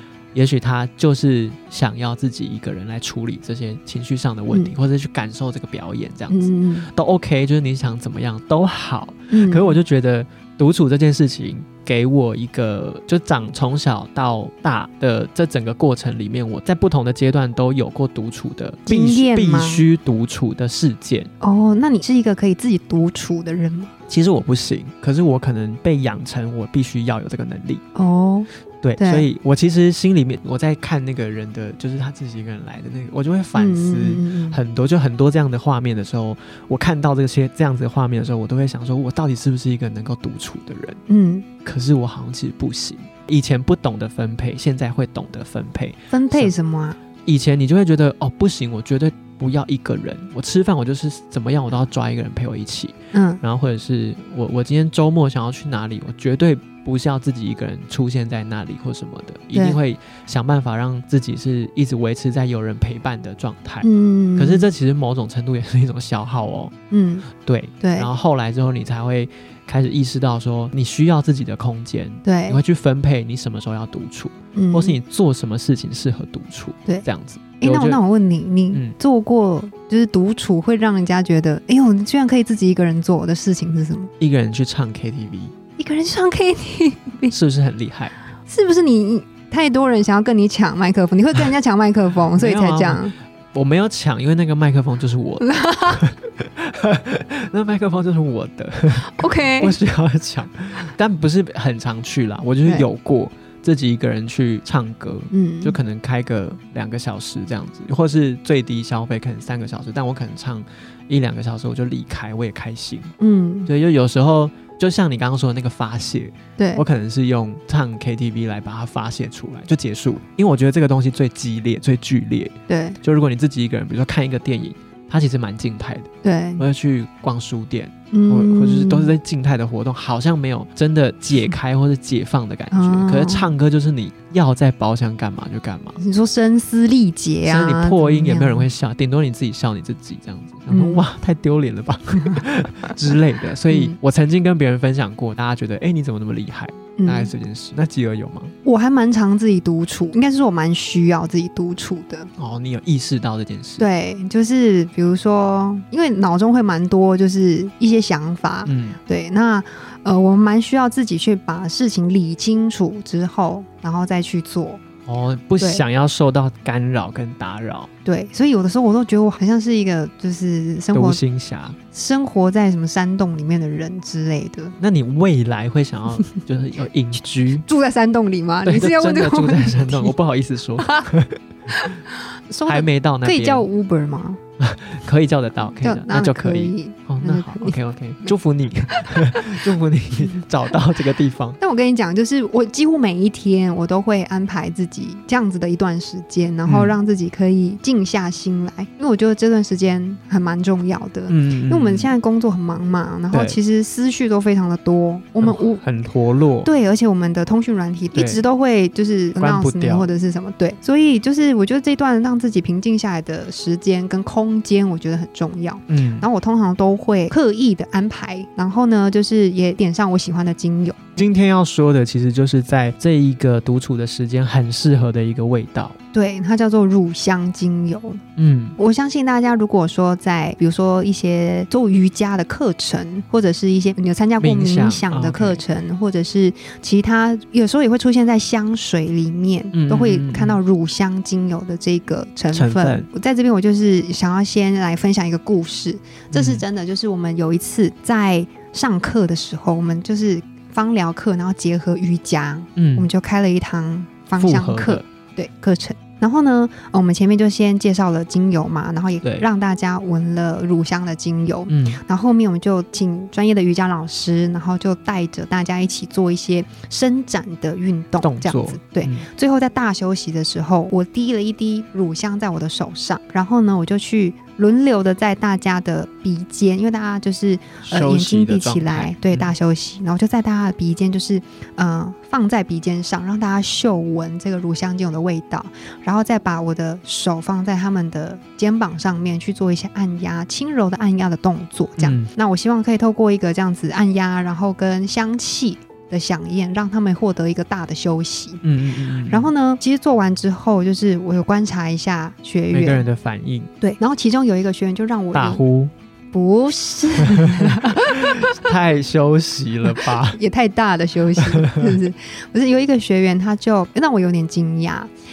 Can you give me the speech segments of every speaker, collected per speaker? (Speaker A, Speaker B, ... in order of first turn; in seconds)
Speaker A: 0.3-21.3, 24.1-27.8, 28.8-41.0, 41.6-46.5, 47.3-66.7, 67.4-78.0, 84.2-85.5, 87.3-88.1, 92.4-113.1, 113.7-136.0, 137.4-148.5, 152.4-153.9, 158.7-159.0, 165.1-167.9, 170.9-171.8, 174.8-177.7, 178.7-181.4, 182.7-183.7, 184.6-191.6, 196.7-197.0, 201.3-202.1, 203.3-203.6, 205.4-206.7, 208.1-208.4, 209.4-210.1, 215.9-216.3, 221.2-226.0, 228.4-228.8, 234.4-235.6, 239.7-240.6, 242.5-243.1, 246.3-246.7, 252.8-253.1, 254.4-255.1, 261.7-262.0, 268.2-269.3, 277.8-279.5, 292.0-292.3, 298.6-299.5, 302.7-303.7, 305.3-305.9, 307.2-310.4, 311.5-311.9
Speaker B: 4.5-4.8, 6.3-6.9, 9.3-9.8, 18.9-19.9, 21.4-23.9, 27.9-29.3, 33.5-34.6, 41.1-41.5, 46.1-47.0, 53.1-53.4, 59.5-59.8, 63.8-64.7, 66.9-67.3, 67.8-68.1, 72.2-72.6, 74.5-75.0, 77.6-84.1, 85.8-87.3, 88.5-93.2, 95.4-96.0, 99.0-99.8, 105.3-105.8, 113.2-113.7, 116.6-116.8, 122.7-123.0, 126.2-126.6, 128.1-129.1, 132.7-133.5, 136.0-138.7, 140.7-141.1, 143.7-144.0, 147.0-147.3, 148.6-152.3, 153.8-164.8, 168.1-171.2, 171.9-174.8, 177.7-180.1, 180.8-181.1, 181.7-184.4, 185.8-188.3, 188.9-189.4, 191.6-205.8, 206.7-221.3, 226.1-228.2, 228.8-298.6, 299.3-303.1, 303.8-305.6, 306.3-308.7, 310.1-315.1